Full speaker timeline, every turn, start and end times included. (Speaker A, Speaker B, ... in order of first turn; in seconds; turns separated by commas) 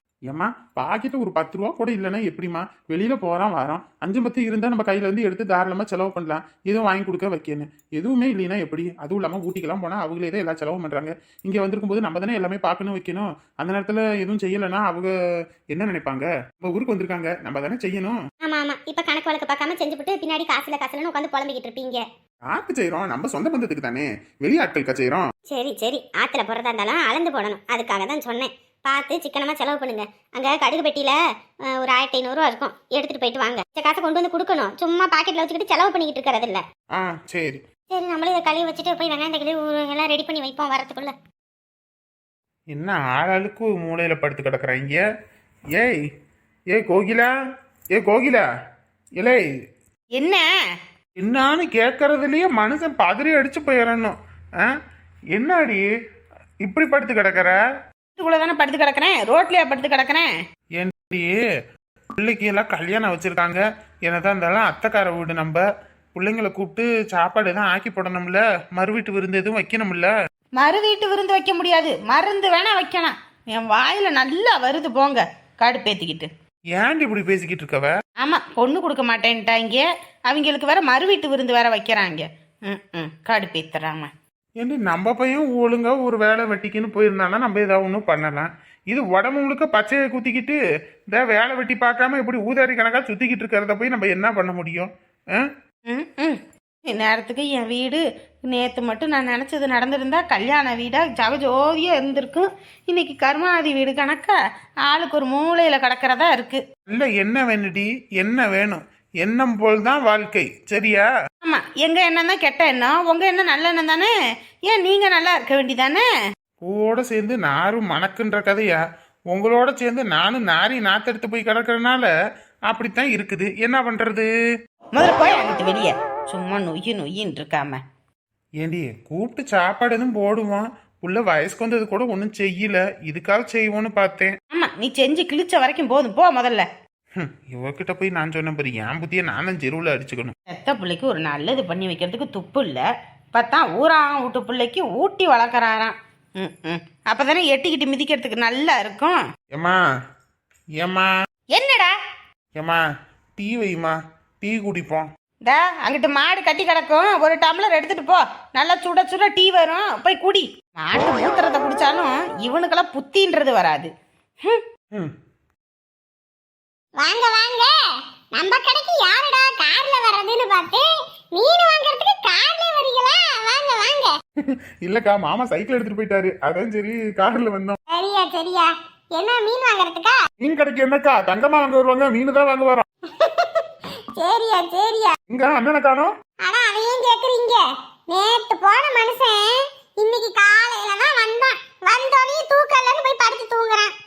Speaker A: 0.3-15.1, Speaker A: 15.7-18.2, Speaker B: 18.4-22.0, Speaker A: 22.5-25.3, Speaker B: 25.5-36.6, Speaker A: 37.0-37.6, Speaker B: 37.9-41.1, Speaker A: 42.7-45.0, Speaker A: 45.7-46.0, Speaker A: 46.7-47.3, Speaker A: 48.0-48.5, Speaker C: 50.2-50.4, Speaker A: 51.2-54.7, Speaker A: 55.3-55.9, Speaker A: 56.6-57.6, Speaker C: 58.2-60.3, Speaker A: 60.8-61.4, Speaker A: 62.1-65.6, Speaker A: 66.2-70.1, Speaker C: 70.6-76.3, Speaker A: 76.7-78.0, Speaker C: 78.2-84.1, Speaker A: 84.6-90.6, Speaker A: 91.1-95.5, Speaker C: 95.9-106.6, Speaker A: 106.9-111.1, Speaker C: 111.4-114.1, Speaker C: 114.7-116.0, Speaker A: 116.7-122.1, Speaker A: 122.7-124.3, Speaker C: 124.9-127.8, Speaker A: 128.6-134.3, Speaker C: 134.5-136.7, Speaker A: 137.2-140.3, Speaker C: 140.5-149.2, Speaker A: 149.5-149.8, Speaker A: 150.8-151.1, Speaker C: 151.5-151.9, Speaker A: 153.4-155.1, Speaker C: 155.4-163.9, Speaker D: 167.0-167.7, Speaker D: 168.3-174.2, Speaker A: 174.4-177.8, Speaker D: 177.9-180.2, Speaker A: 180.4-182.9, Speaker D: 183.1-185.2, Speaker A: 185.3-186.1, Speaker D: 186.4-193.9